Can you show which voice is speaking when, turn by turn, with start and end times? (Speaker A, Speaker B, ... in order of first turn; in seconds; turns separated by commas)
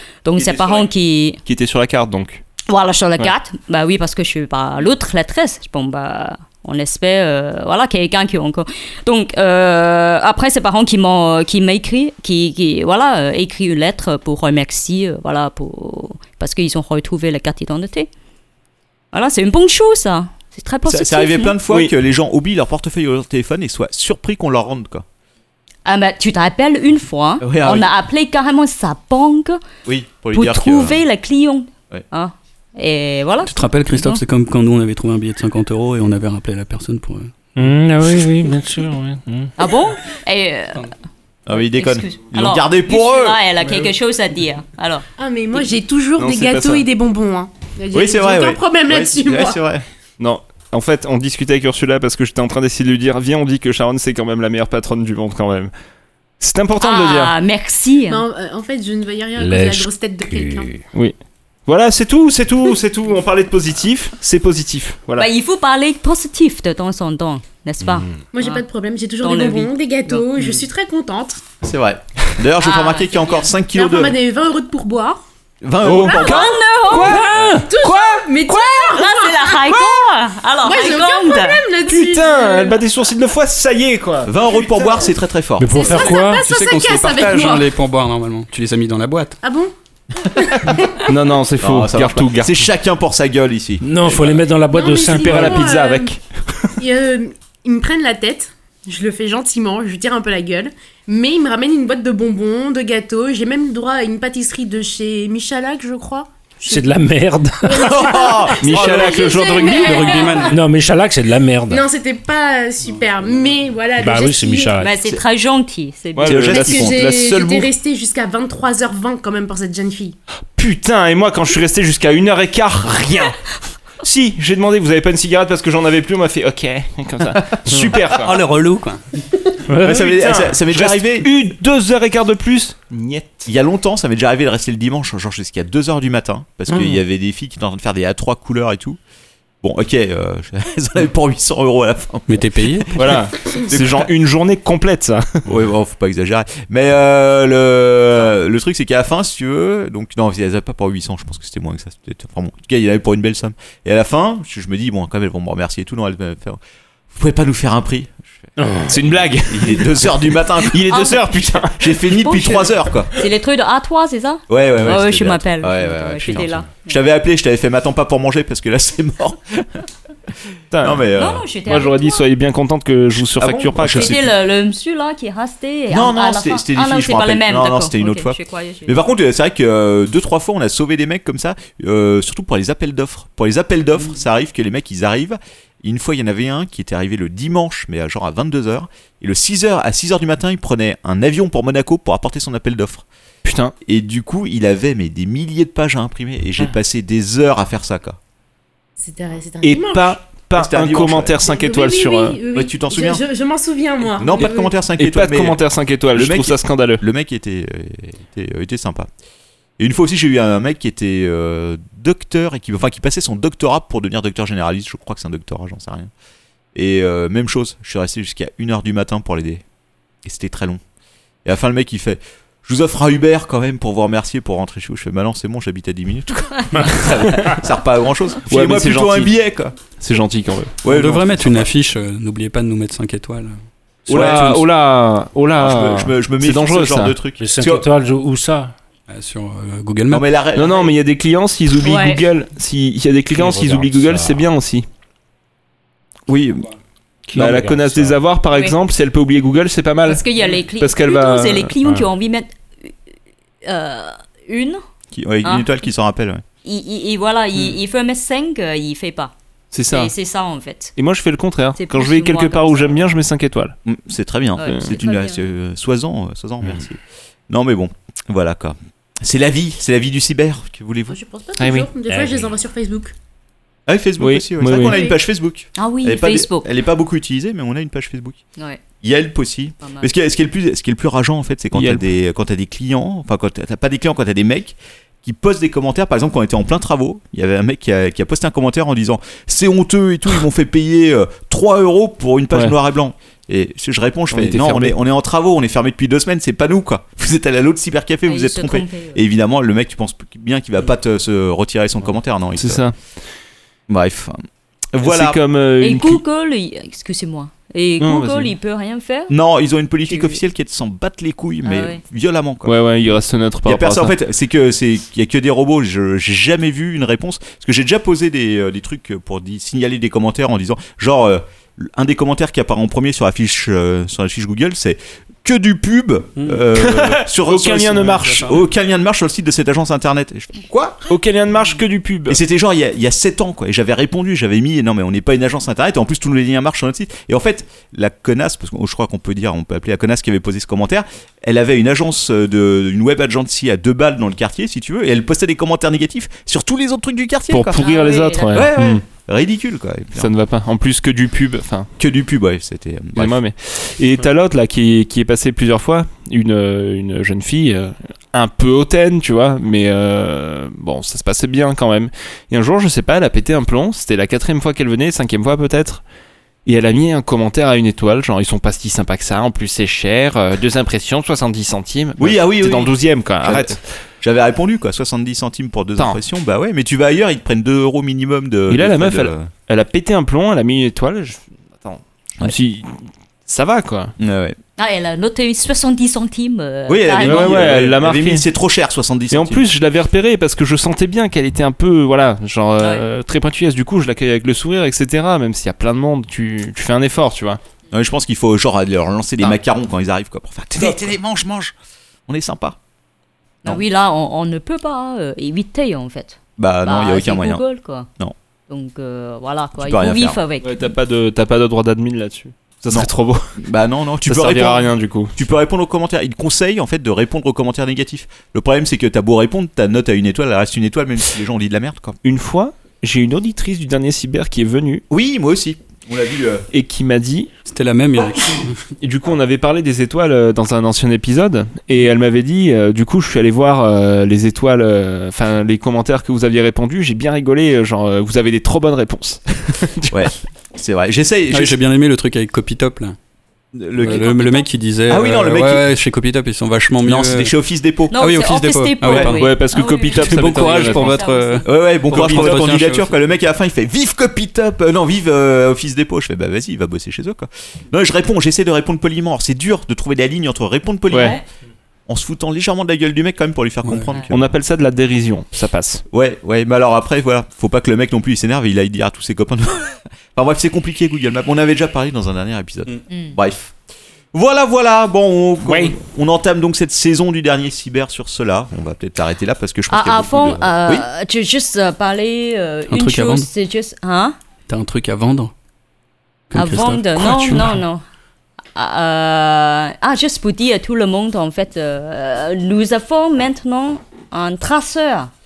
Speaker A: 0.2-1.4, Speaker B: 0.4-0.9, Speaker B: 1.4-2.4, Speaker A: 2.7-18.1, Speaker A: 19.1-21.6, Speaker C: 20.9-25.0, Speaker A: 25.8-29.6, Speaker C: 27.4-27.9, Speaker C: 29.9-31.0, Speaker A: 30.3-34.2, Speaker D: 33.4-37.3, Speaker E: 37.5-39.5, Speaker A: 39.6-40.9, Speaker C: 41.5-43.4, Speaker A: 41.5-45.0, Speaker F: 45.2-49.6, Speaker B: 46.2-46.9, Speaker C: 47.9-49.8, Speaker B: 50.2-55.7, Speaker B: 56.4-57.3, Speaker A: 56.8-58.2, Speaker F: 58.1-60.7, Speaker E: 59.4-60.8, Speaker B: 60.9-65.3, Speaker A: 65.2-68.6, Speaker E: 67.9-68.2, Speaker F: 68.3-71.4, Speaker A: 69.2-70.2, Speaker C: 71.6-74.2, Speaker A: 72.6-73.5, Speaker F: 73.7-75.2, Speaker C: 75.6-76.3, Speaker B: 75.8-79.0, Speaker A: 76.0-77.3, Speaker F: 76.1-79.7, Speaker E: 77.3-77.7, Speaker A: 78.9-81.6, Speaker F: 80.6-82.8, Speaker B: 81.9-84.3, Speaker C: 84.2-85.9, Speaker F: 84.6-85.1, Speaker E: 85.6-86.4, Speaker F: 85.7-87.7, Speaker D: 86.4-89.4, Speaker F: 89.4-89.7, Speaker F: 90.3-91.1, Speaker B: 91.0-92.7, Speaker C: 91.6-94.2, Speaker E: 93.8-95.7, Speaker F: 94.7-96.1, Speaker B: 95.0-96.6, Speaker F: 96.8-106.9, Speaker E: 106.7-108.0, Speaker F: 107.6-110.6, Speaker C: 107.8-109.3, Speaker B: 108.6-110.3, Speaker D: 109.7-110.6, Speaker E: 110.5-111.9, Speaker F: 111.7-114.8, Speaker D: 113.2-113.5, Speaker E: 114.0-114.9, Speaker A: 114.8-116.5, Speaker B: 116.2-117.7, Speaker C: 116.2-117.0, Speaker F: 116.5-120.2, Speaker B: 120.5-123.4, Speaker B: 124.0-128.4, Speaker D: 128.1-129.0, Speaker E: 129.7-130.1, Speaker B: 129.8-133.4, Speaker C: 129.8-131.3, Speaker C: 133.4-139.0, Speaker E: 136.7-137.0, Speaker C: 139.6-144.1, Speaker D: 142.3-143.0, Speaker B: 142.9-145.4, Speaker C: 145.4-156.6, Speaker C: 157.1-158.4, Speaker E: 158.6-158.9, Speaker B: 158.9-162.0, Speaker C: 159.5-163.1, Speaker A: 162.1-167.0, Speaker C: 164.5-169.8, Speaker B: 170.7-171.1, Speaker C: 170.8-171.4, Speaker A: 171.1-172.2, Speaker B: 171.6-174.3, Speaker C: 173.4-174.3, Speaker A: 173.9-179.0, Speaker C: 175.9-193.0, Speaker B: 193.4-193.7, Speaker C: 193.8-198.2, Speaker F: 199.0-200.2, Speaker B: 199.6-202.4, Speaker C: 200.6-201.4, Speaker F: 201.5-204.7, Speaker C: 202.5-203.2, Speaker C: 204.1-205.6, Speaker B: 204.3-207.0, Speaker C: 206.1-209.1, Speaker C: 209.8-216.1, Speaker C: 216.7-219.6, Speaker C: 220.2-220.8, Speaker C: 221.4-229.8, Speaker B: 228.4-230.7, Speaker C: 230.8-231.7, Speaker D: 230.8-233.6, Speaker E: 234.1-234.6, Speaker C: 234.1-234.7, Speaker B: 234.1-237.2, Speaker C: 235.6-237.9, Speaker E: 237.4-238.7, Speaker D: 239.1-240.3, Speaker C: 240.1-241.0, Speaker B: 240.5-244.8, Speaker A: 241.8-242.2, Speaker E: 243.3-244.5, Speaker C: 246.3-246.7, Speaker E: 247.3-248.2, Speaker B: 247.3-250.2, Speaker A: 250.1-252.9, Speaker B: 250.8-251.7, Speaker A: 253.6-254.8, Speaker C: 255.1-256.4, Speaker A: 255.4-255.7, Speaker A: 256.6-259.3, Speaker B: 259.7-260.1, Speaker A: 259.9-260.9, Speaker B: 260.9-263.8, Speaker A: 261.8-263.2, Speaker C: 263.9-271.2, Speaker A: 264.6-265.4, Speaker F: 271.1-273.1, Speaker B: 271.6-271.9, Speaker E: 272.1-272.5, Speaker C: 273.9-278.4, Speaker B: 274.2-275.0, Speaker F: 274.8-275.2, Speaker A: 275.8-276.6, Speaker C: 279.0-302.8, Speaker A: 279.8-280.1, Speaker B: 281.7-282.1, Speaker B: 294.3-295.0, Speaker A: 298.2-299.2, Speaker B: 302.6-302.9, Speaker C: 303.9-304.4, Speaker C: 304.9-305.4, Speaker B: 305.0-306.2, Speaker A: 305.8-309.3, Speaker B: 308.0-308.5, Speaker C: 309.3-312.7, Speaker A: 310.1-310.4, Speaker A: 311.6-312.0, Speaker B: 312.6-314.1, Speaker C: 313.6-331.1, Speaker D: 326.4-326.6, Speaker B: 326.8-328.6, Speaker D: 328.0-328.6, Speaker B: 331.1-332.4, Speaker C: 332.3-347.8, Speaker B: 347.5-349.0, Speaker A: 347.7-348.7, Speaker C: 348.5-350.3, Speaker B: 350.1-351.9, Speaker C: 352.0-353.4, Speaker B: 353.1-366.0, Speaker B: 366.6-373.8, Speaker C: 372.2-379.5, Speaker B: 378.7-384.1, Speaker C: 384.2-384.6, Speaker A: 384.8-387.7, Speaker C: 386.9-389.6, Speaker B: 387.2-388.4, Speaker B: 389.3-397.6, Speaker C: 397.9-401.7, Speaker B: 400.8-401.1, Speaker C: 402.3-402.8, Speaker A: 403.6-408.1, Speaker C: 406.6-407.6, Speaker A: 408.7-410.8, Speaker C: 409.8-410.4, Speaker B: 410.6-413.6, Speaker C: 412.9-422.2, Speaker B: 414.2-415.4, Speaker B: 422.2-425.0, Speaker C: 425.1-426.6, Speaker B: 426.7-427.5, Speaker D: 427.7-428.9, Speaker B: 429.0-440.3, Speaker C: 440.1-441.8, Speaker D: 441.5-443.2, Speaker C: 443.7-444.3, Speaker D: 443.9-447.5, Speaker A: 444.0-444.7, Speaker C: 445.1-445.9, Speaker C: 447.0-448.2, Speaker A: 448.1-451.7, Speaker D: 448.1-449.4, Speaker C: 449.1-449.3, Speaker B: 449.1-451.2, Speaker D: 450.0-453.2, Speaker C: 451.6-461.4, Speaker B: 452.1-452.6, Speaker B: 461.1-461.4, Speaker A: 461.1-461.4, Speaker C: 462.1-464.6, Speaker D: 463.8-464.1, Speaker B: 464.3-466.0, Speaker C: 466.1-473.8, Speaker A: 473.1-473.4, Speaker C: 474.3-481.1, Speaker B: 475.6-475.9, Speaker A: 479.9-484.4, Speaker D: 482.9-483.5, Speaker D: 484.7-485.5, Speaker D: 486.5-487.8, Speaker A: 486.5-488.0, Speaker A: 488.7-495.3